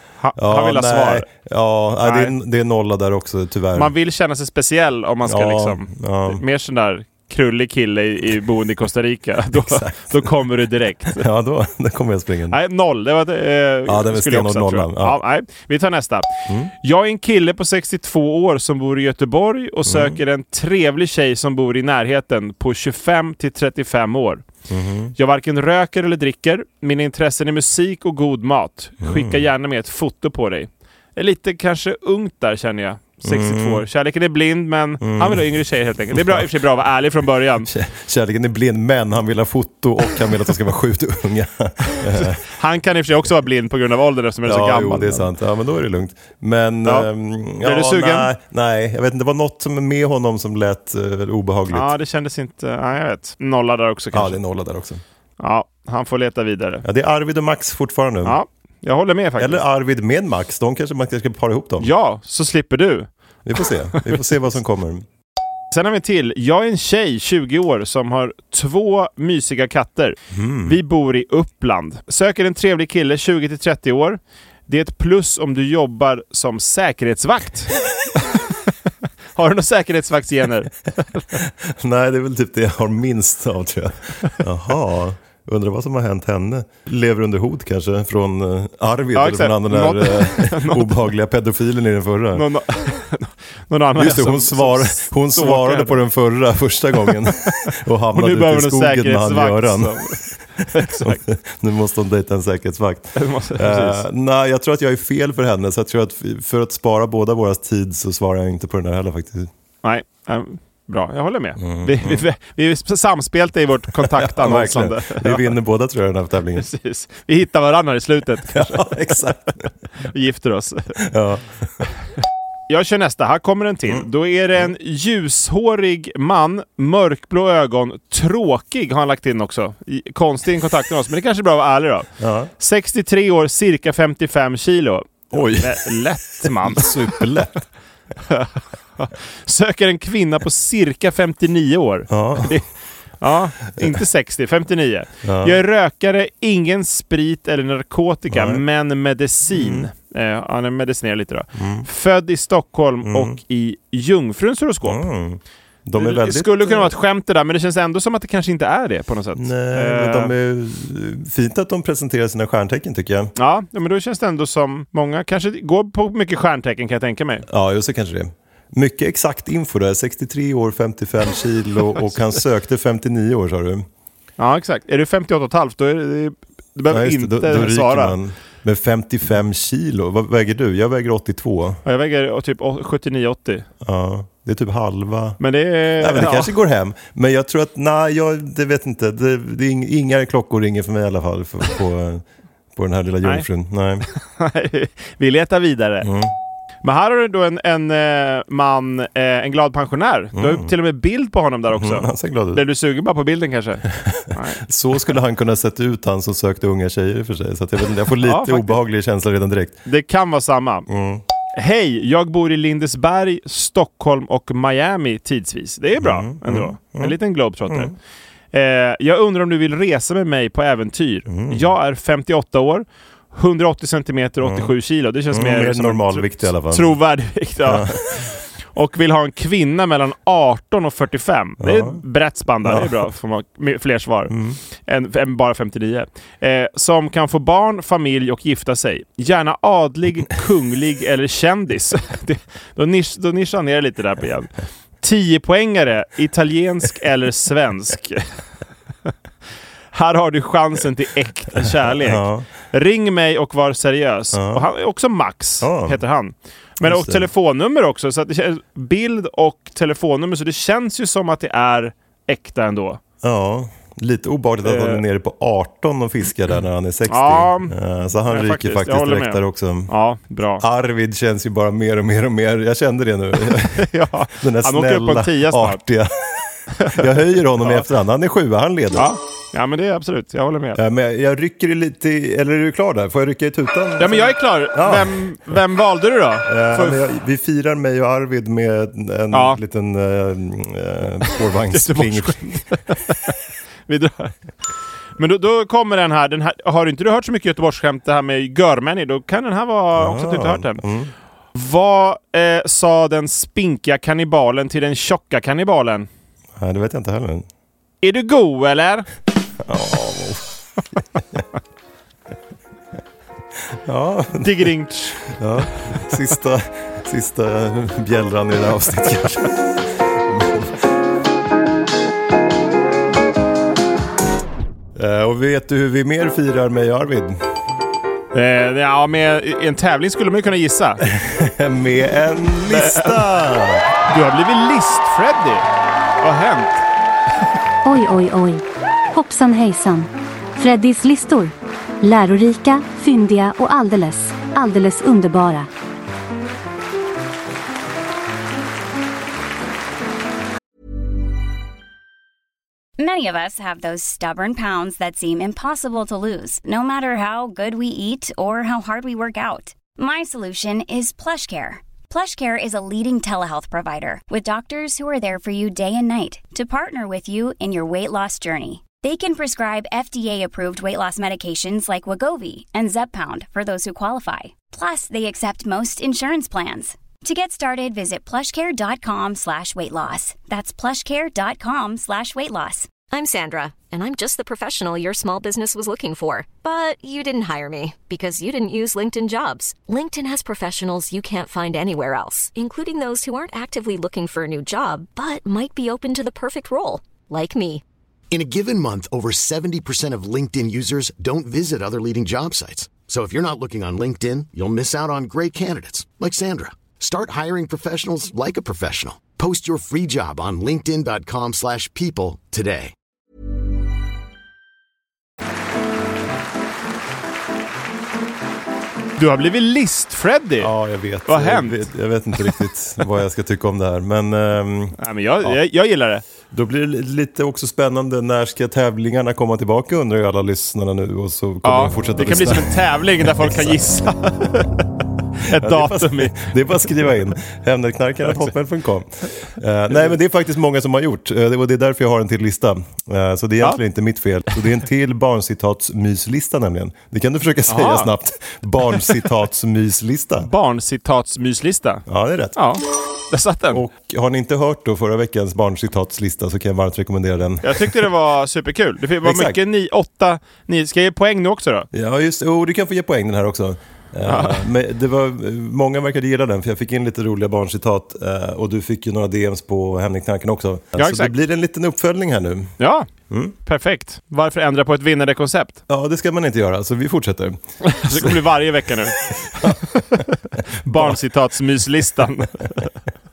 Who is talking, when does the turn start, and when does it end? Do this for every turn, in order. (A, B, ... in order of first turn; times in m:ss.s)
0:00.2-0:01.3 A
0:00.4-0:03.9 B
0:02.0-0:02.3 A
0:03.8-0:11.2 A
0:05.2-0:06.4 B
0:09.5-0:10.4 B
0:11.1-0:12.6 B
0:12.5-0:24.4 A
0:13.9-0:15.2 B
0:16.5-0:16.7 B
0:19.9-0:20.2 B
0:24.7-0:25.1 B
0:25.2-0:37.7 A
0:29.0-0:29.4 B
0:33.2-0:33.8 B
0:35.0-0:35.6 B
0:36.1-0:36.5 B
0:37.7-0:42.4 B
0:42.1-0:45.3 A
0:44.4-0:51.9 B
0:47.6-0:48.3 A
0:51.7-0:54.4 A
0:54.1-0:55.0 B
0:55.4-0:56.8 A
0:56.8-0:58.4 B
0:58.2-0:59.6 A
0:59.4-1:01.9 B
1:01.8-1:03.1 A
1:03.4-1:05.1 B
1:05.7-1:17.8 A
1:10.3-1:10.8 B
1:19.4-1:21.3 A
1:21.3-1:32.5 B
1:29.2-1:31.0 A
1:32.4-1:36.0 A
1:34.0-1:49.5 B
1:37.0-1:41.2 A
1:43.2-1:44.0 A
1:49.8-1:55.5 A
1:51.6-1:52.3 B
1:54.0-1:56.7 B
1:56.6-1:59.0 A
1:58.5-1:59.7 B
2:00.0-2:01.0 A
2:01.0-2:01.7 B
2:02.7-2:17.0 A
2:12.2-2:12.5 B
2:15.3-2:17.6 B
2:18.3-2:22.7 A
2:22.1-2:22.6 B
2:23.2-2:35.0 A
2:25.2-2:25.6 B
2:28.3-2:28.6 B
2:29.5-2:29.9 B
2:31.6-2:31.9 B
2:33.0-2:33.4 B
2:34.8-2:36.9 B
2:36.0-2:40.3 A
2:39.4-2:43.3 B
2:43.4-2:47.4 A
2:47.5-2:53.8 B
2:54.4-2:58.2 A
2:56.9-3:01.8 B
3:01.8-3:03.7 A
3:03.8-3:05.4 B
3:05.4-3:06.5 A
3:06.0-3:12.2 B
3:12.8-3:14.1 B
3:14.1-3:16.1 A
3:16.0-3:16.3 B
3:16.8-3:24.6 A
3:20.4-3:20.7 B
3:21.7-3:22.6 B
3:24.1-3:29.8 B
3:28.2-3:28.8 A
3:29.8-3:30.9 A
3:30.9-3:31.2 B
3:31.5-3:37.9 A
3:36.0-3:37.9 B
3:38.5-4:04.5 A
3:41.3-3:41.7 B
3:44.4-3:44.7 B
3:45.3-3:47.0 B
3:47.6-3:48.0 B
3:51.6-3:52.0 B
3:52.6-3:53.0 B
3:54.3-3:54.6 B
4:05.0-4:08.3 A
4:09.9-4:23.0 A
4:11.8-4:12.5 B
4:14.3-4:14.7 B
4:15.6-4:16.0 B
4:16.8-4:17.3 B
4:23.2-4:29.9 B
4:24.6-4:25.0 A
4:27.1-4:27.7 A
4:28.3-4:30.6 A
4:30.6-4:39.1 B
4:33.8-4:35.8 A
4:36.8-4:37.0 A
4:38.9-4:40.8 A
4:40.8-4:45.2 B
4:44.0-4:47.0 A
4:46.5-4:52.6 B
4:49.3-4:49.6 A
4:51.7-4:53.4 A
4:53.9-4:54.4 A
4:55.2-5:00.8 A
5:00.0-5:01.1 B
5:01.5-5:06.1 A
5:06.6-5:07.5 B
5:08.0-5:09.1 A
5:09.6-5:11.4 B
5:13.7-5:14.7 B
5:14.4-5:15.3 A
5:15.2-5:20.7 B
5:25.0-5:27.4 B
5:28.3-5:31.0 A
5:31.1-5:33.9 B
5:32.7-5:33.3 A
5:34.1-5:35.7 A
5:36.2-5:36.8 A
5:37.8-5:45.7 C
5:53.0-6:22.9 D
6:23.1-6:37.8 E
6:38.3-6:52.9 F
6:59.2-7:00.7 A
7:00.6-7:05.6 B
7:01.3-7:01.9 A
7:05.0-7:06.2 A
7:06.5-7:13.8 B
7:11.6-7:14.8 A
7:15.4-7:16.4 A
7:15.5-7:30.5 B
7:27.7-7:28.1 A
7:30.4-7:32.0 A
7:32.1-7:32.6 B
7:32.6-7:33.8 A
7:33.7-7:38.0 B
7:37.6-7:41.9 A
7:39.2-7:39.6 B
7:41.9-7:52.7 B
7:44.3-7:44.7 A
7:51.0-7:51.3 A
7:52.8-7:53.1 A
7:53.3-7:53.6 B
7:53.6-7:55.8 A
7:55.9-7:58.4 B
7:57.8-8:00.2 A
7:59.6-8:00.2 B
8:00.8-8:02.9 A